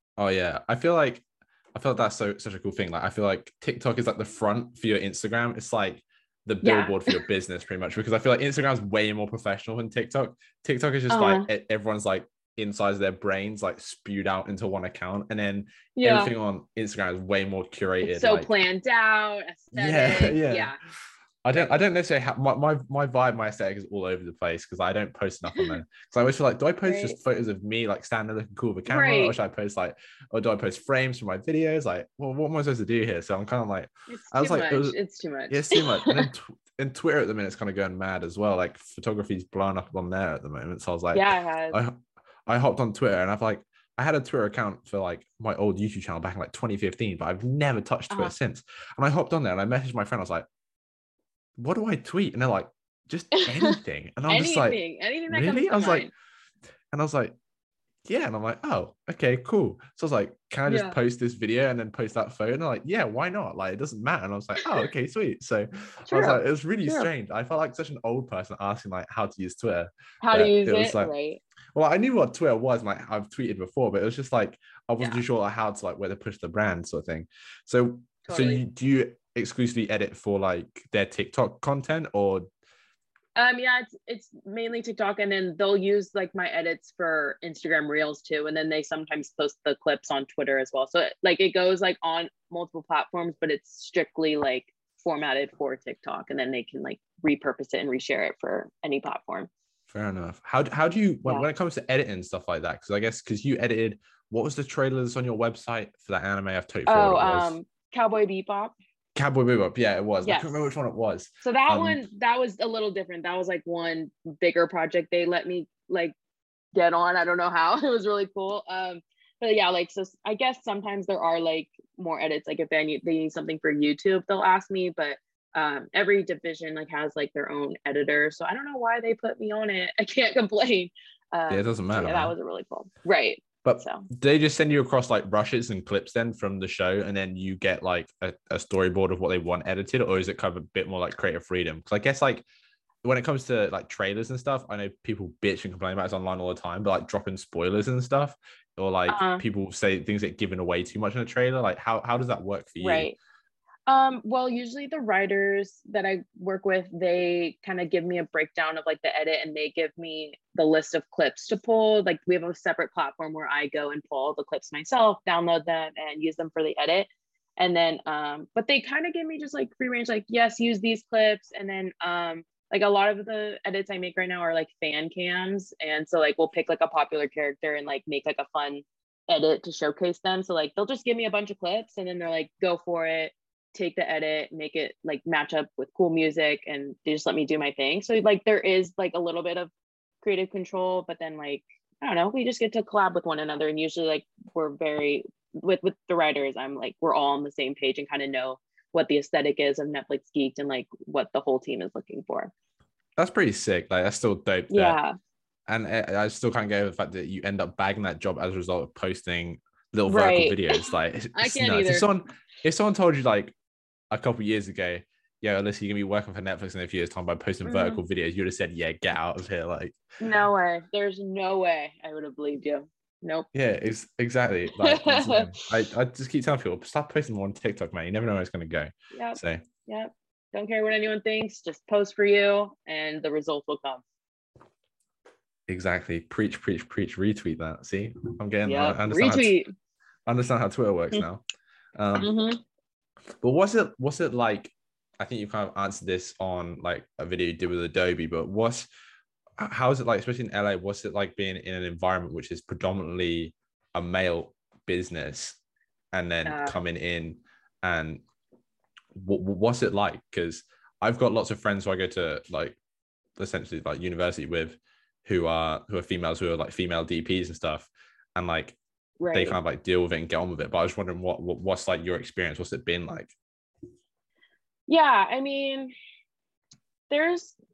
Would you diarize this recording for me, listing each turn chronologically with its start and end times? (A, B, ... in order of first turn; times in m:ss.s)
0:00.2-0:18.5 A
0:06.6-0:07.2 B
0:11.1-0:11.4 B
0:16.0-0:16.3 B
0:18.0-0:20.8 B
0:19.7-0:20.7 A
0:21.4-0:35.0 A
0:26.8-0:27.2 B
0:28.9-0:29.4 B
0:34.1-0:36.2 B
0:35.5-0:42.0 A
0:41.1-0:41.8 B
0:42.5-0:50.4 A
0:51.6-0:56.1 A
0:53.4-0:53.8 B
0:54.3-0:56.1 B
0:56.9-0:57.3 A
0:58.0-1:11.1 A
1:00.7-1:01.0 B
1:06.1-1:07.1 B
1:10.2-1:11.4 B
1:11.7-1:22.4 A
1:18.2-1:18.6 B
1:23.3-1:39.5 B
1:39.9-1:47.6 A
1:46.9-1:48.7 B
1:49.1-1:52.0 A
1:50.2-1:50.6 B
1:51.4-1:56.1 B
1:56.7-2:14.0 B
2:11.5-2:12.3 A
2:13.6-2:22.4 A
2:23.0-2:33.1 A
2:29.1-2:29.4 B
2:32.8-2:33.1 B
2:33.9-3:09.7 B
3:10.2-3:22.5 B
3:23.2-3:25.0 A
3:24.7-3:25.2 B
3:25.7-3:33.5 A
3:30.1-3:32.1 B
3:34.1-3:40.0 A
3:37.6-3:38.0 B
3:40.2-3:43.5 B
3:43.5-3:49.6 A
3:44.8-3:45.5 B
3:49.1-3:54.0 B
3:55.7-3:59.5 A
3:58.6-3:59.7 B
4:00.3-4:01.4 A
4:02.0-4:02.3 A
4:02.2-4:02.6 B
4:03.4-4:08.9 A
4:09.6-4:15.6 A
4:16.1-4:18.2 A
4:16.4-4:16.8 B
4:19.2-4:22.8 A
4:23.4-4:28.8 A
4:29.2-4:29.6 B
4:29.3-4:33.3 A
4:34.9-4:35.9 B
4:37.1-4:37.6 B